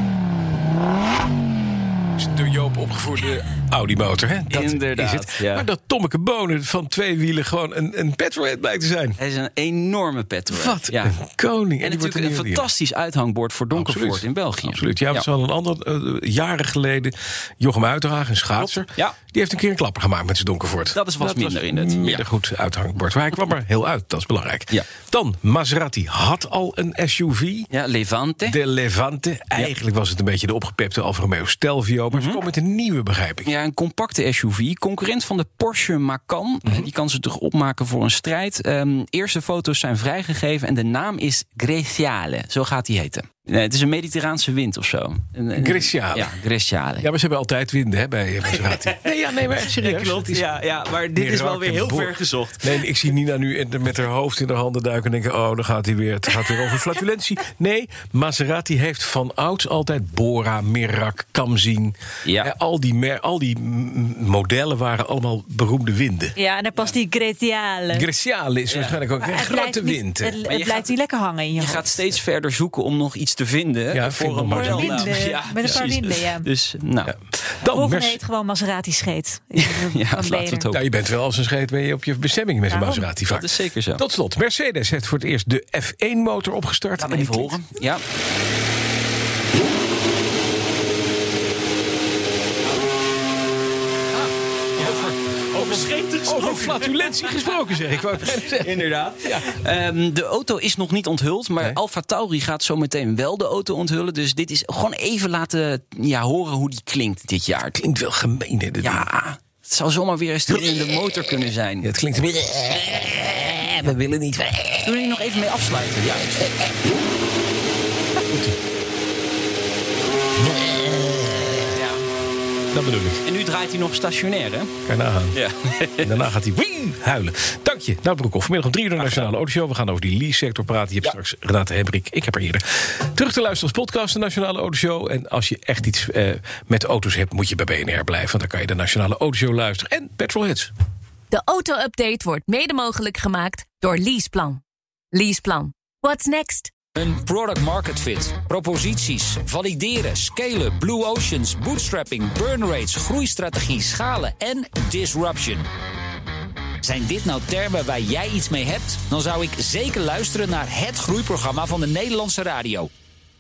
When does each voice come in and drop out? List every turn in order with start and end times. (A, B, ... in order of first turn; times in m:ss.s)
0:02.2-0:09.2 A
0:04.5-0:05.7 B
0:09.2-0:11.2 B
0:10.5-0:12.7 A
0:11.8-0:15.3 B
0:13.7-0:27.7 A
0:18.6-0:19.2 B
0:20.9-0:22.2 B
0:27.7-0:28.6 B
0:28.5-0:33.5 A
0:32.1-0:32.4 B
0:33.4-0:47.1 B
0:45.6-0:46.3 A
0:47.0-0:50.5 A
0:48.6-0:49.0 B
0:49.7-0:52.9 B
0:51.2-1:06.3 A
1:02.2-1:02.5 B
1:06.4-1:08.1 C
1:07.9-1:10.4 A
1:08.7-1:09.0 B
1:09.2-1:11.9 C
1:10.5-1:10.9 B
1:11.6-1:17.2 B
1:13.9-1:15.9 A
1:14.5-1:16.5 C
1:17.0-1:18.2 A
1:17.7-1:20.7 C
1:19.6-1:20.8 B
1:20.7-1:27.6 A
1:22.7-1:23.0 C
1:23.3-1:24.0 B
1:27.0-1:28.0 B
1:34.8-1:37.3 B
1:34.8-1:39.6 A
1:38.6-1:47.8 B
1:47.8-1:49.1 A
1:48.8-1:51.9 B
1:51.8-1:54.9 A
1:54.8-1:56.5 B
1:58.3-1:58.6 A
2:00.5-2:01.2 A
2:01.7-2:02.0 B
2:02.7-2:03.2 A
2:03.2-2:04.7 B
2:04.9-2:05.4 A
2:05.3-2:06.1 B
2:06.0-2:20.7 A
2:09.0-2:09.3 B
2:21.3-2:24.6 D
2:25.1-2:26.7 D
2:27.0-2:35.6 E
2:36.8-2:42.9 E